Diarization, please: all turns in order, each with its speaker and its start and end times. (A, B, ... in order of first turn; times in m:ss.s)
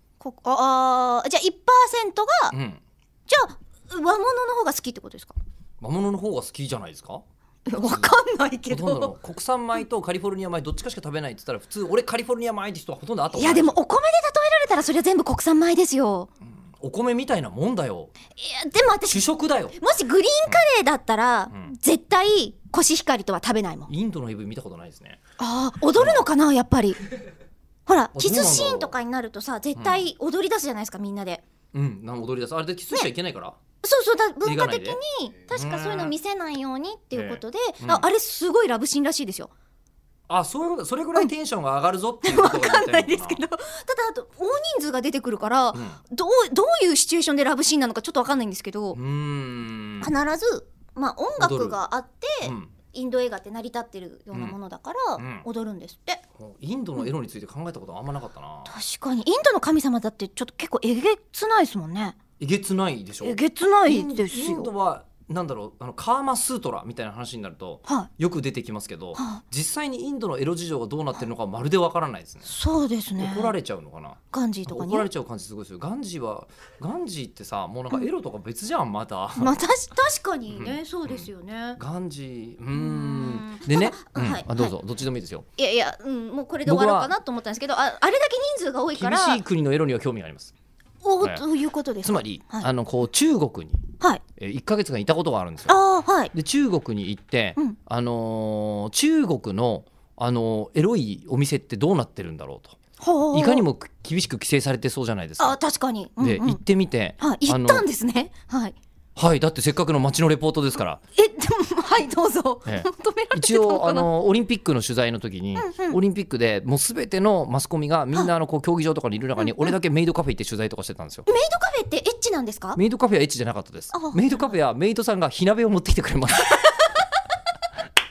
0:00.2-0:02.5 A
0:02.5-0:02.8 B
0:03.3-0:05.3 A
0:05.8-0:07.2 B
0:07.7-0:09.1 A
0:07.8-0:08.2 B
0:08.7-0:13.8 B
0:13.3-0:16.3 A
0:16.5-0:18.1 B
0:18.4-0:19.2 A
0:19.1-0:19.8 B
0:19.8-0:23.9 A
0:23.9-0:25.2 B
0:25.4-0:27.0 A
0:26.0-0:26.2 B
0:27.9-0:31.4 A
0:28.1-0:28.9 B
0:29.8-0:30.1 B
0:31.7-0:33.6 B
0:33.8-0:39.5 A
0:34.4-0:35.0 B
0:35.5-0:36.1 B
0:37.1-0:38.1 B
0:40.3-0:43.4 B
0:42.2-0:49.0 A
0:45.7-0:46.0 B
0:48.9-0:50.1 B
0:50.0-0:56.2 A
0:51.4-0:51.8 B
0:52.4-0:52.7 B
0:54.3-0:54.6 B
0:55.2-0:55.5 B
0:56.4-0:58.7 B
0:58.7-1:02.2 A
1:02.4-1:12.5 B
1:03.2-1:04.7 A
1:09.2-1:09.4 A
1:12.4-1:13.5 A
1:13.2-1:19.6 B
1:14.3-1:15.1 A
1:19.4-1:21.8 A
1:20.5-1:25.4 B
1:22.7-1:24.7 A
1:25.6-1:29.4 A
1:26.6-1:27.1 B
1:28.9-1:30.5 B
1:31.0-1:32.7 A
1:32.0-1:33.8 B
1:34.4-1:35.8 B
1:35.7-1:36.3 A
1:36.3-1:42.8 B
1:43.0-1:43.6 A
1:43.3-1:45.6 B
1:45.4-1:46.6 A
1:46.2-1:47.8 B
1:47.2-1:48.8 A
1:49.2-1:51.0 B
1:51.1-1:54.1 A
1:52.6-2:01.3 B
1:55.6-1:56.0 A
1:59.4-1:59.7 A
2:01.2-2:02.8 A
2:02.7-2:06.6 B
2:03.9-2:04.4 A
2:06.5-2:07.0 A